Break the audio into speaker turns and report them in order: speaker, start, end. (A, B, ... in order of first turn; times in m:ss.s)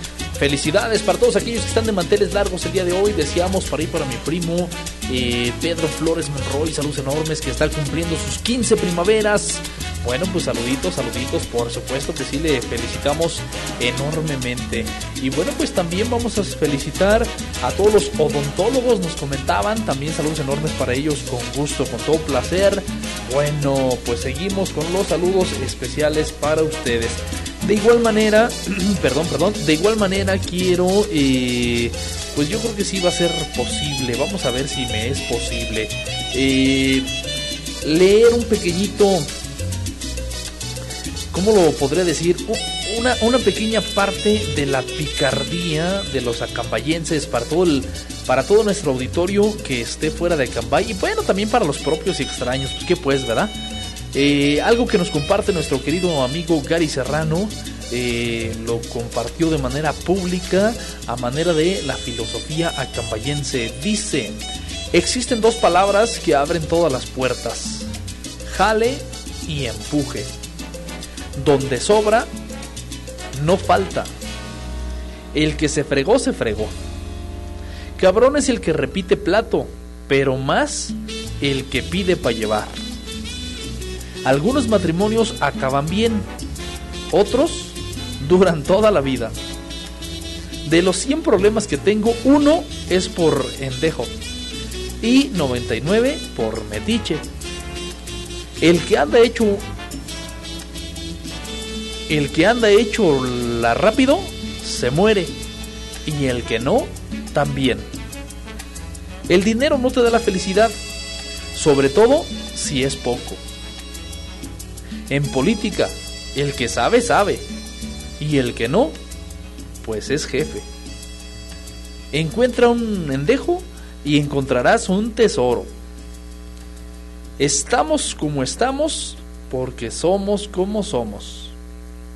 0:00.4-0:37.1 A
0:37.8-0:39.3 A
0:41.3-0:53.5 A
0:54.1-1:04.4 A
1:04.9-1:07.9 A
1:08.5-1:10.3 A
1:11.4-1:12.3 A
1:13.3-1:14.1 A
1:15.3-1:16.7 A
1:18.0-1:22.8 A
1:24.2-1:26.2 A
1:27.1-1:29.3 A
1:30.6-1:34.1 A
1:35.0-1:37.2 A
1:38.6-1:39.6 A
1:42.1-1:45.3 A
1:46.0-1:47.9 A
1:49.3-1:50.8 A
1:51.5-1:53.4 A
1:55.1-1:57.4 A
1:58.2-1:58.9 A
1:59.8-2:00.6 A
2:02.1-2:05.7 A
2:07.4-2:11.5 A